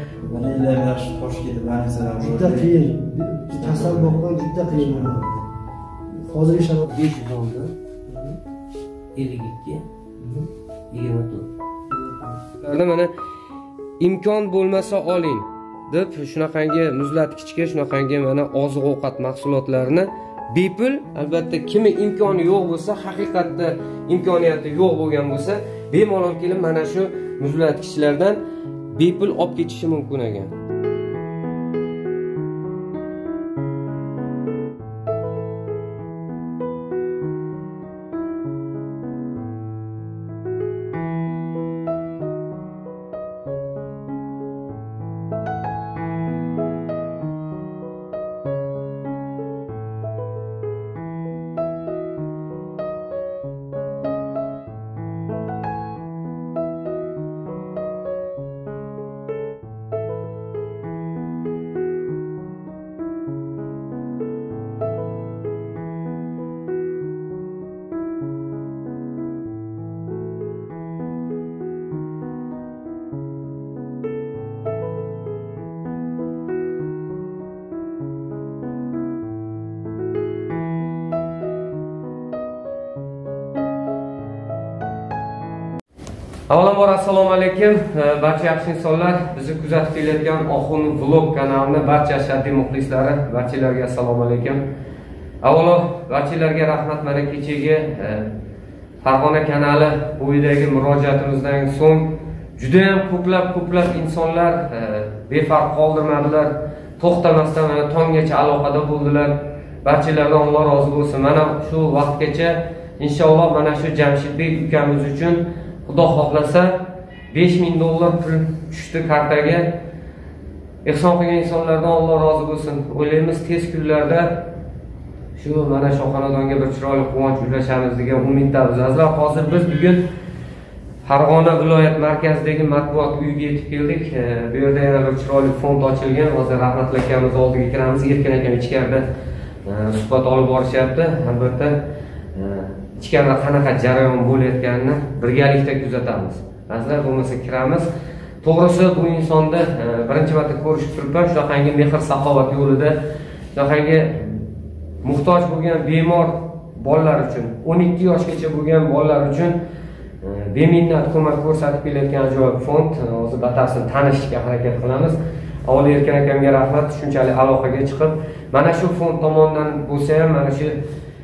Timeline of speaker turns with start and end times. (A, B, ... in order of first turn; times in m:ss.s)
0:00.2-0:02.8 A
0:02.2-0:05.4 B
0:03.6-0:05.2 A
0:06.1-0:07.0 B
0:06.9-0:07.7 C
0:08.1-0:08.4 B
0:09.2-0:09.8 C
0:10.2-0:10.5 B
0:10.9-0:11.5 C
0:11.9-0:12.4 B
0:12.6-0:13.1 C
0:14.0-0:28.4 C
0:28.9-0:30.5 C
1:26.5-1:34.6 C
1:35.4-1:38.4 C
1:39.0-1:59.8 C
2:00.8-2:04.5 C
2:05.4-2:10.0 C
2:11.0-2:19.0 C
2:19.6-2:21.8 C
2:22.3-2:27.9 C
2:28.4-2:33.0 C
2:33.5-2:34.4 C
2:35.0-2:39.6 C
2:40.2-2:50.8 C